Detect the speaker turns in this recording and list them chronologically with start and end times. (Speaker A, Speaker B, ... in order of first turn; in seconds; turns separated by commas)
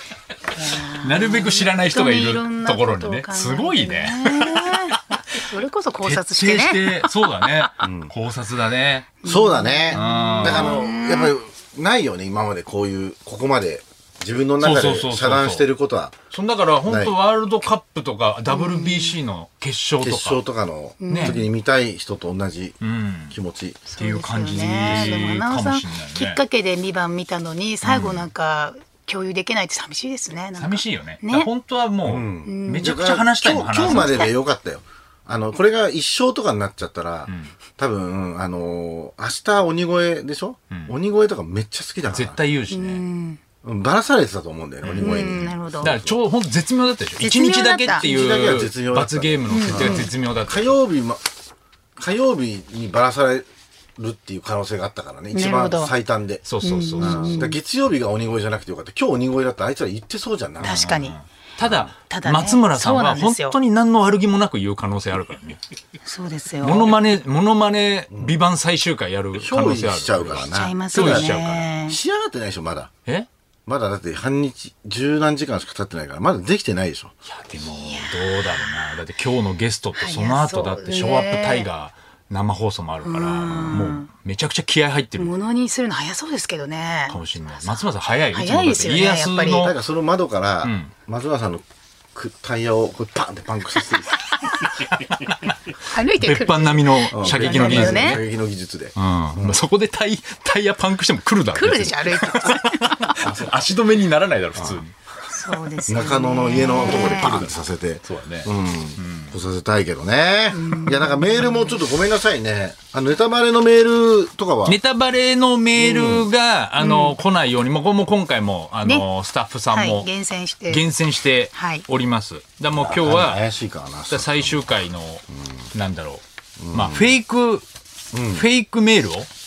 Speaker A: 0.5-7.1, Speaker B: 1.0-5.5, Speaker B: 6.0-9.1, Speaker C: 7.8-8.1, Speaker A: 9.2-11.4, Speaker C: 9.2-16.1, Speaker B: 9.9-10.8, Speaker B: 14.6-15.7, Speaker B: 16.3-20.4, Speaker C: 16.9-17.2, Speaker A: 18.5-19.2, Speaker C: 20.0-22.8, Speaker A: 21.0-21.4, Speaker B: 21.1-21.4, Speaker B: 22.8-23.4, Speaker C: 23.3-23.9, Speaker A: 23.9-31.5, Speaker B: 24.0-26.4, Speaker C: 24.9-25.2, Speaker B: 27.8-28.2, Speaker B: 30.6-34.3, Speaker C: 32.0-42.4, Speaker A: 32.5-33.0, Speaker A: 34.0-34.3, Speaker B: 37.3-37.5, Speaker B: 42.1-43.0, Speaker A: 42.7-43.4, Speaker C: 43.6-46.1, Speaker B: 44.8-50.8, Speaker A: 45.0-46.0, Speaker A: 47.2-48.1, Speaker C: 48.0-51.2, Speaker A: 49.5-50.1, Speaker C: 52.0-56.4, Speaker A: 55.3-55.9, Speaker B: 56.5-57.5, Speaker A: 56.6-57.6, Speaker C: 57.0-60.9, Speaker B: 60.6-65.6, Speaker A: 60.6-61.2, Speaker C: 61.6-61.9, Speaker A: 62.1-63.6, Speaker A: 66.0-67.0, Speaker B: 66.6-71.7, Speaker C: 68.1-68.4, Speaker C: 69.4-72.9, Speaker A: 70.5-72.0, Speaker C: 73.7-77.1, Speaker B: 77.3-85.3, Speaker A: 77.7-78.6, Speaker A: 80.0-81.7, Speaker A: 83.0-84.1, Speaker A: 85.2-87.8, Speaker B: 87.1-89.7, Speaker A: 88.3-89.7, Speaker C: 89.5-91.6, Speaker B: 90.6-90.9, Speaker C: 92.2-94.2, Speaker B: 95.0-95.5, Speaker A: 95.9-98.2, Speaker B: 96.1-98.2, Speaker C: 97.1-99.6, Speaker B: 99.0-105.0, Speaker A: 101.5-103.1, Speaker C: 103.2-103.5, Speaker C: 104.6-104.8, Speaker A: 105.3-107.4, Speaker C: 105.9-114.8, Speaker B: 106.8-107.5, Speaker B: 108.0-109.3, Speaker A: 110.5-111.8, Speaker B: 114.7-120.1, Speaker C: 115.8-116.3, Speaker A: 116.8-117.2, Speaker A: 119.7-120.9, Speaker B: 120.7-123.4, Speaker A: 121.5-121.8, Speaker C: 122.7-124.7, Speaker B: 124.1-127.6, Speaker C: 126.6-127.2, Speaker C: 128.1-128.5, Speaker B: 128.3-129.3